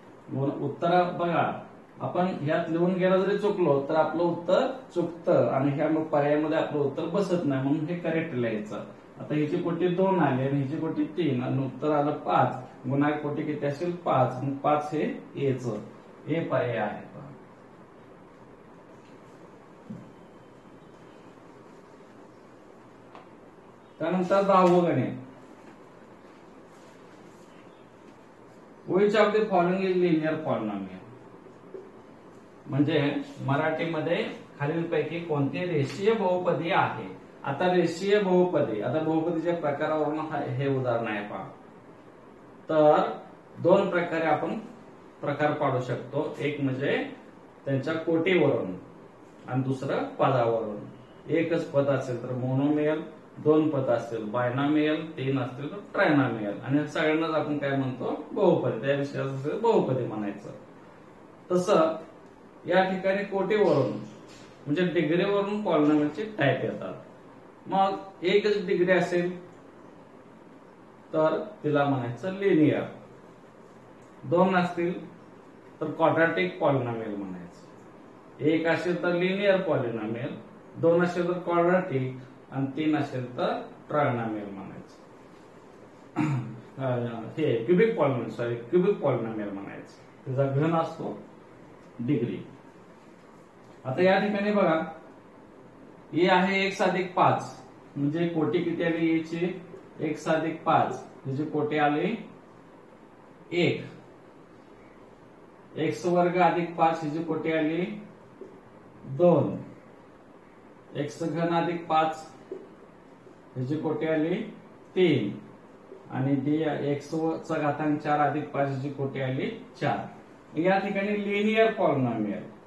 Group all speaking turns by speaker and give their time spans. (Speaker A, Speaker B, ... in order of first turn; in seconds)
Speaker A: 0.3-17.4, 24.0-25.1, 28.9-31.1, 32.7-41.5, 42.7-44.6, 45.2-47.1, 47.6-48.8, 49.5-60.6, 61.5-62.0, 62.6-64.0, 64.7-67.0, 67.7-69.3, 71.1-72.9, 74.2-75.0, 75.8-77.7, 78.4-85.0, 86.2-91.2, 92.0-92.5, 93.8-94.8, 96.1-102.2, 103.5-103.9, 105.8-108.0, 109.1-109.6, 110.9-112.3, 113.5-115.4, 116.1-122.5